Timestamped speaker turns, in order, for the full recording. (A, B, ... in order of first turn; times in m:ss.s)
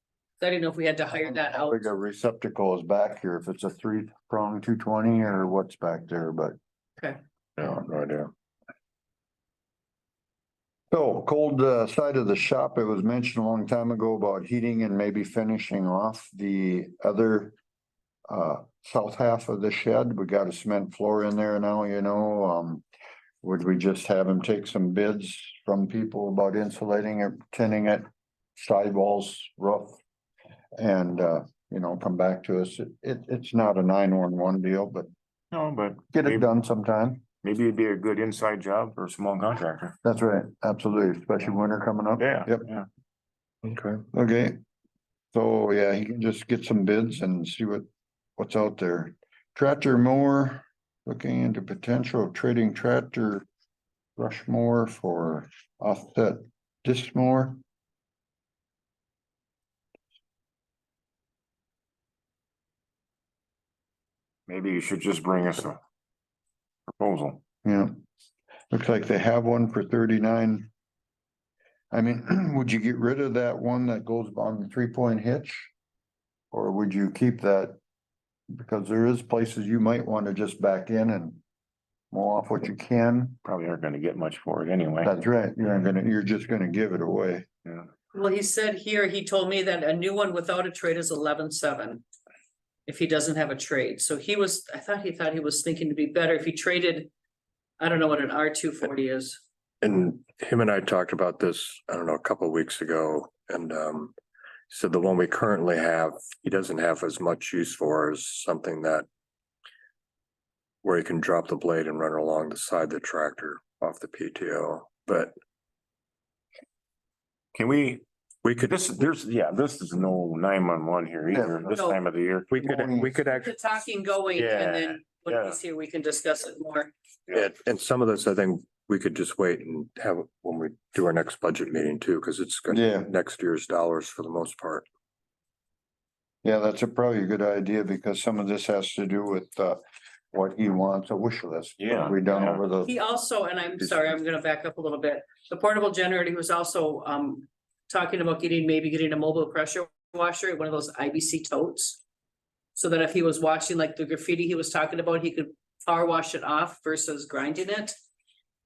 0:00.4-0:01.9 A
0:01.2-0:06.6 B
0:07.6-0:08.3 C
0:10.9-0:17.5 B
0:18.3-0:22.8 B
0:23.4-0:28.0 B
0:28.6-0:30.0 B
0:30.8-0:35.1 B
0:35.5-0:36.4 D
0:36.1-0:37.2 B
0:37.4-0:39.9 D
0:40.0-0:42.7 B
0:42.2-0:42.9 D
0:43.6-0:44.0 C
0:44.1-0:44.6 B
0:45.3-0:47.8 B
0:48.4-0:53.4 B
0:54.2-0:57.6 B
1:04.5-1:05.8 D
1:07.0-1:07.4 D
1:07.6-1:07.9 B
1:08.7-1:10.7 B
1:11.9-1:15.7 B
1:16.5-1:17.8 B
1:18.5-1:21.4 B
1:22.1-1:23.4 B
1:23.4-1:25.1 D
1:25.0-1:27.4 B
1:28.1-1:32.0 A
1:32.9-1:37.1 A
1:37.8-1:39.4 A
1:39.8-1:44.1 C
1:44.7-1:49.0 C
1:50.8-1:55.3 C
1:57.5-2:02.6 D
2:01.3-2:01.7 B
2:01.7-2:02.0 A
2:02.5-2:03.5 C
2:02.6-2:03.1 B
2:03.3-2:06.9 A
2:04.4-2:05.6 D
2:07.3-2:14.8 C
2:12.7-2:13.1 B
2:16.4-2:19.8 B
2:20.3-2:22.9 B
2:21.8-2:22.6 D
2:22.8-2:32.0 A
2:32.7-2:37.9 A